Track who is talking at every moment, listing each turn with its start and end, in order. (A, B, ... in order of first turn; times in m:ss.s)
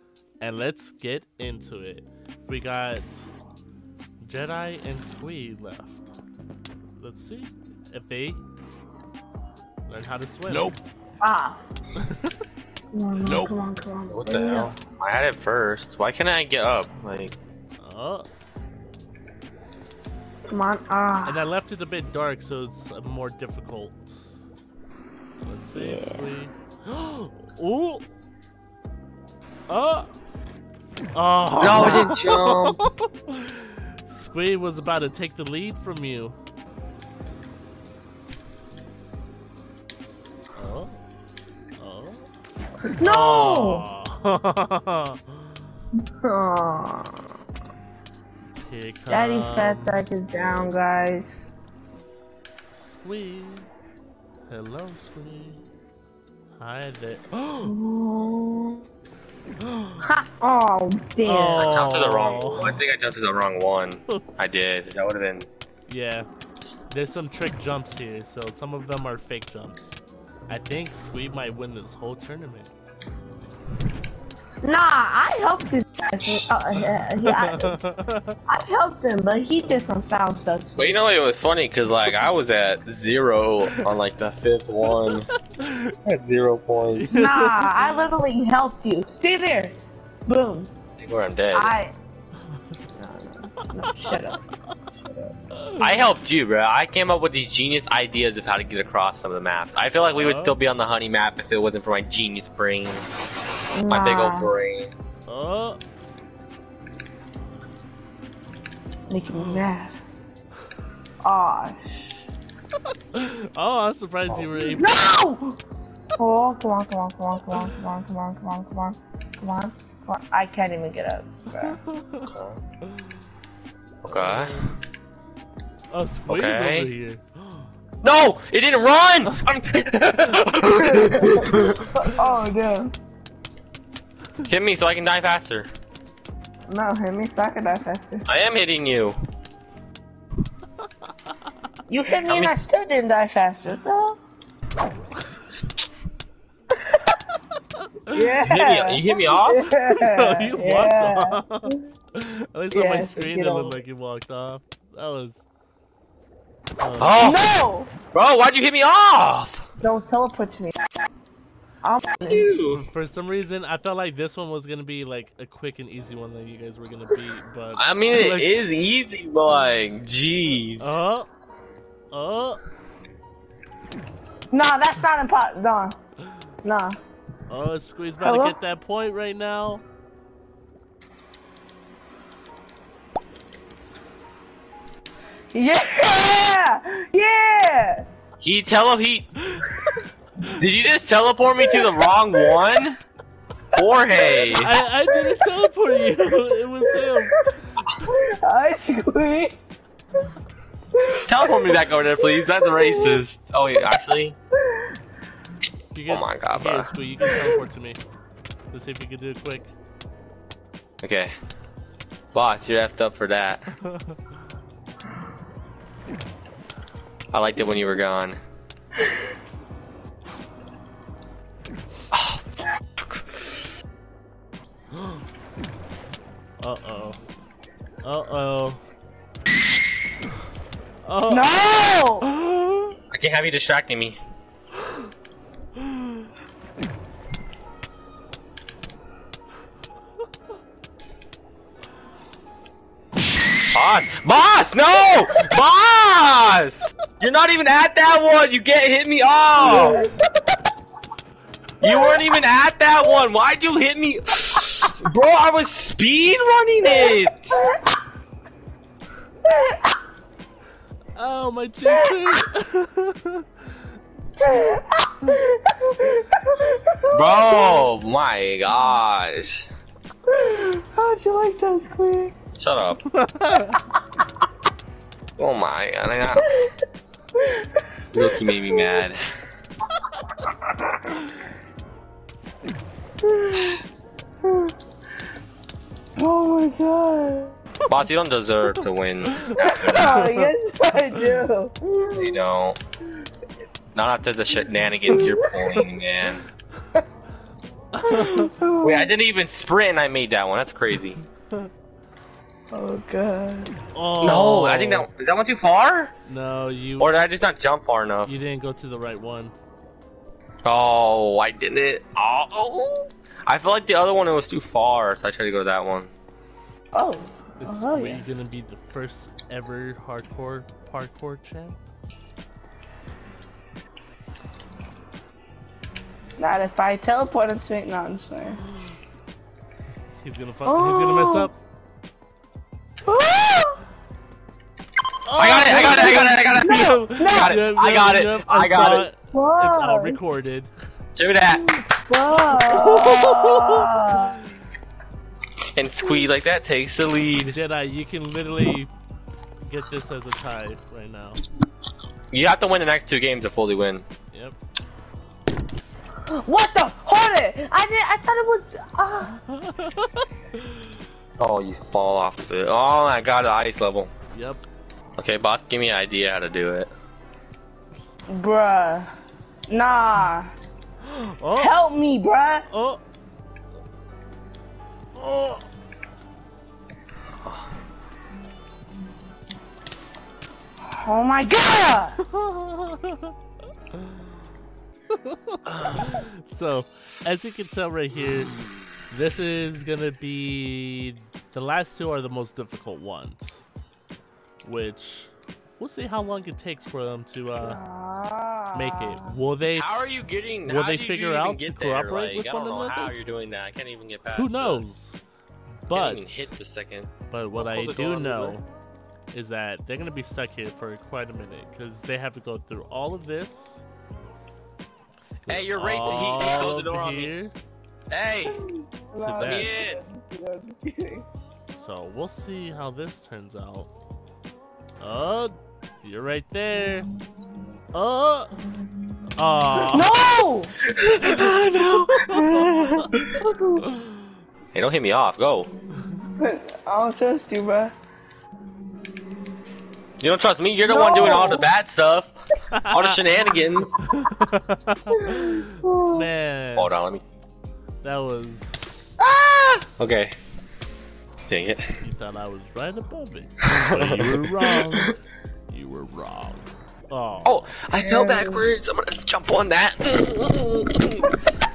0:00.4-0:03.3 A
0:04.2-0:06.0 A
0:07.0-0:08.4 A
0:09.9-0:10.8 A
0:11.2-0:11.6 B
0:12.0-0:12.3 A
0:12.9-0:14.7 B
0:14.1-0:17.3 C
0:17.8-0:18.3 A
0:20.4-0:21.4 B
0:21.2-0:24.2 A
0:25.4-0:28.0 A
0:25.7-0:26.3 B
0:29.7-0:30.1 A
0:31.1-0:36.4 A
0:31.6-0:32.8 C
0:40.6-0:41.0 A
0:41.8-0:42.3 A
0:42.9-0:43.8 B
0:43.0-0:45.5 A
0:46.2-0:47.3 B
0:48.6-0:50.7 A
0:49.1-0:51.4 B
0:52.7-0:53.7 A
0:54.5-0:55.6 A
0:56.6-0:57.7 A
0:57.6-0:58.8 B
0:59.6-1:00.0 A
1:00.0-1:01.7 B
1:01.2-1:02.8 A
1:01.6-1:05.5 C
1:05.9-1:06.3 A
1:06.9-1:12.7 A
1:14.6-1:17.7 B
1:17.2-1:18.4 A
1:18.5-1:20.8 B
1:20.8-1:25.3 C
1:24.9-1:25.9 A
1:26.0-1:27.1 C
1:26.9-1:28.0 A
1:27.1-1:29.8 B
1:30.3-1:30.7 B
1:31.0-1:31.7 C
1:31.5-1:31.9 B
1:33.0-1:35.3 B
1:33.6-1:34.2 A
1:35.5-1:36.0 A
1:35.8-1:43.1 C
1:40.2-1:40.6 A
1:43.7-1:44.5 B
1:43.9-1:44.9 C
1:45.3-1:45.8 A
1:49.1-1:50.0 B
1:49.3-1:49.6 A
1:51.2-1:52.2 B
1:53.1-1:54.9 A
1:54.6-1:55.6 B
1:56.2-2:01.8 B
2:01.6-2:02.3 A
2:02.3-2:02.6 C
2:04.0-2:04.6 C
2:04.1-2:04.7 A
2:05.9-2:07.7 A
2:06.3-2:06.9 C
2:08.0-2:11.8 C
2:10.8-2:12.9 B
2:14.5-2:15.7 C
2:16.7-2:18.2 B
2:18.2-2:19.2 C
2:21.9-2:24.2 B
2:22.2-2:22.5 C
2:28.1-2:31.8 B
2:28.4-2:29.7 C
2:29.9-2:35.4 A
2:32.7-2:33.8 B
2:36.8-2:37.3 A
2:37.0-2:37.4 C
2:37.2-2:37.9 B
2:38.1-2:39.6 C
2:39.8-2:40.8 B
2:41.8-2:42.5 B
2:42.3-2:42.8 C
2:42.7-2:48.8 A
2:47.8-2:51.0 C
2:50.8-2:51.3 A
2:52.1-2:52.6 A
2:54.5-2:56.0 B
2:56.6-2:57.0 B
2:57.5-2:59.8 A
2:58.2-2:58.5 B
3:05.5-3:08.0 B
3:08.4-3:09.3 C
3:10.5-3:13.0 C
3:11.7-3:12.6 B
3:13.7-3:14.7 C
3:14.5-3:17.4 A
3:18.0-3:19.6 B
3:21.0-3:23.2 B
3:21.2-3:24.4 C
3:25.9-3:28.0 A
3:26.1-3:26.9 C
3:28.7-3:29.7 A
3:31.0-3:31.3 C
3:32.3-3:33.7 C
3:33.8-3:34.2 A
3:37.3-3:38.4 C
3:42.1-3:43.6 C
3:46.6-3:47.2 A
3:48.0-3:48.8 A
3:51.0-3:51.6 A
3:51.3-3:52.3 B
3:52.2-3:52.9 A
3:53.1-3:54.2 C
4:03.7-4:10.0 C
4:09.6-4:10.1 B
4:11.8-4:17.5 C
4:11.8-4:12.2 B
4:16.9-4:17.8 B
4:19.5-4:19.9 B
4:21.2-4:23.5 A
4:21.9-4:22.1 B
4:24.4-4:27.8 B
4:27.1-4:29.7 C
4:30.3-4:32.3 B
4:32.6-4:33.0 C
4:33.1-4:33.8 A
4:35.4-4:36.5 C
4:38.1-4:39.3 C
4:43.2-4:43.8 B
4:46.2-4:47.5 B
4:47.9-4:50.2 C
4:49.3-4:50.5 A
4:49.6-4:52.4 B
4:52.1-4:52.8 C
4:53.9-4:56.4 C
4:55.1-4:55.8 B
4:58.0-4:58.5 A
4:58.0-4:59.1 B
4:58.8-5:01.2 C
5:02.7-5:03.7 B
5:03.9-5:05.1 A
5:04.2-5:06.1 C
5:06.3-5:07.1 A
5:07.0-5:08.4 C
5:08.2-5:09.5 A
5:10.6-5:16.1 C
5:16.9-5:18.3 B
5:17.6-5:21.8 A
5:26.4-5:28.6 B
5:28.6-5:29.0 A
5:30.2-5:31.5 A
5:30.6-5:31.5 B
5:33.1-5:33.8 B
5:35.2-5:40.7 A
5:35.4-5:39.1 C
5:35.9-5:36.2 B
5:37.2-5:37.6 B
5:39.3-5:40.2 B
5:41.2-5:41.7 C
5:41.5-5:44.4 B
5:42.5-5:44.1 A
5:45.8-5:47.6 C
5:47.5-5:48.9 A
5:49.6-5:51.4 A
5:52.3-5:54.0 C
5:54.3-5:54.6 A
5:56.4-5:59.3 B
5:59.4-6:00.3 A
6:01.4-6:04.1 C
6:04.3-6:04.6 A
6:05.2-6:06.9 C
6:08.3-6:09.1 B
6:09.7-6:10.5 B
6:11.0-6:11.7 A
6:11.6-6:12.6 B
6:12.7-6:13.0 A
6:15.1-6:15.6 A
6:21.0-6:22.2 B
6:22.2-6:23.3 A
6:25.1-6:28.5 A
6:25.7-6:26.0 C
6:29.1-6:33.6 A
6:34.6-6:37.8 A
6:37.6-6:39.3 B
6:38.7-6:39.9 A
6:39.8-6:44.8 C
6:40.6-6:43.1 A
6:44.3-6:45.2 A
6:45.8-6:46.5 A
6:45.9-6:48.6 C
6:47.3-6:48.6 A
6:49.3-6:53.8 A
6:55.4-6:57.3 C
6:55.5-6:57.5 A
6:58.1-6:58.6 C
6:58.5-7:01.2 B
6:59.2-6:59.7 A
6:59.4-7:00.0 C
7:01.7-7:03.9 A
7:05.0-7:07.1 A
7:07.9-7:08.5 A
7:09.4-7:10.2 A
7:09.9-7:10.7 B
7:10.9-7:12.9 C
7:11.2-7:12.6 A
7:12.2-7:13.8 B
7:14.7-7:15.7 C
7:16.4-7:17.9 B
7:20.2-7:22.4 C
7:20.8-7:21.7 B
7:22.7-7:23.2 A
7:22.9-7:24.1 C
7:24.0-7:26.9 A
7:25.2-7:26.2 B
7:26.8-7:27.2 C
7:28.0-7:28.9 A
7:29.2-7:29.7 B
7:29.8-7:30.3 C
7:31.4-7:31.8 C
7:32.0-7:35.1 A
7:33.9-7:35.1 C
7:35.7-7:37.7 A
7:37.4-7:41.3 C
7:38.0-7:38.6 B